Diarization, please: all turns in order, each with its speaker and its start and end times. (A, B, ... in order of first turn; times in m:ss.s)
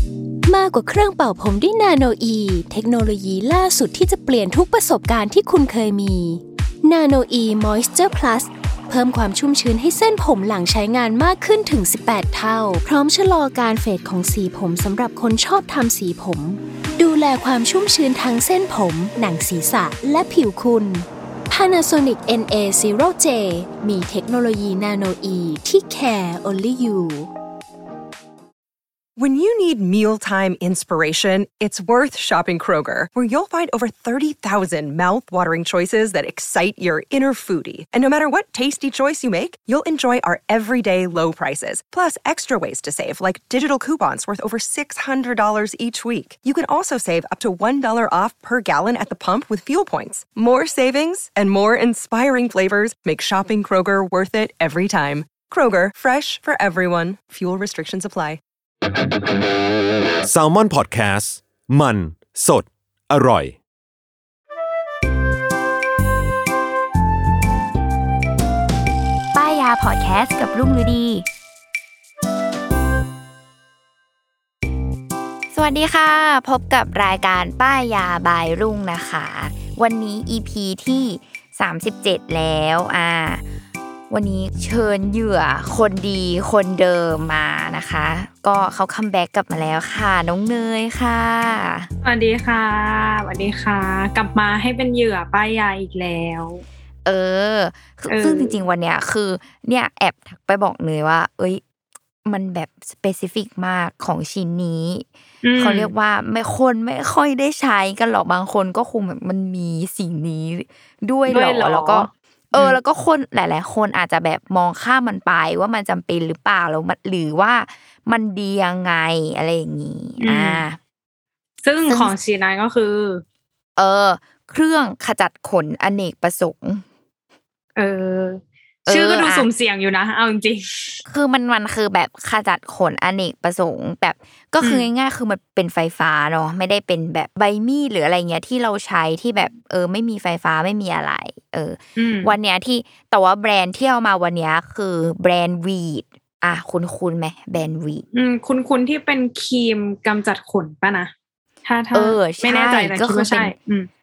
0:00.4-0:27.3 A
0:29.2-0:58.4 B
1:00.2-1:03.6 C
1:09.3-1:11.2 D
1:15.5-1:23.4 D
1:24.1-1:31.9 D
1:32.0-1:36.6 E
1:37.0-1:41.6 D
1:38.1-1:38.6 E
1:42.2-2:00.8 D
1:45.4-1:45.9 E
1:51.3-1:52.8 E
2:00.2-2:00.6 E
2:01.6-2:03.2 E
2:01.9-2:02.1 D
2:03.8-2:06.8 D
2:07.8-2:11.0 E
2:08.9-2:09.5 D
2:11.0-2:28.0 D
2:14.6-2:14.9 E
2:22.0-2:22.3 E
2:28.1-2:31.1 E
2:31.6-2:33.9 E
2:31.9-2:33.5 D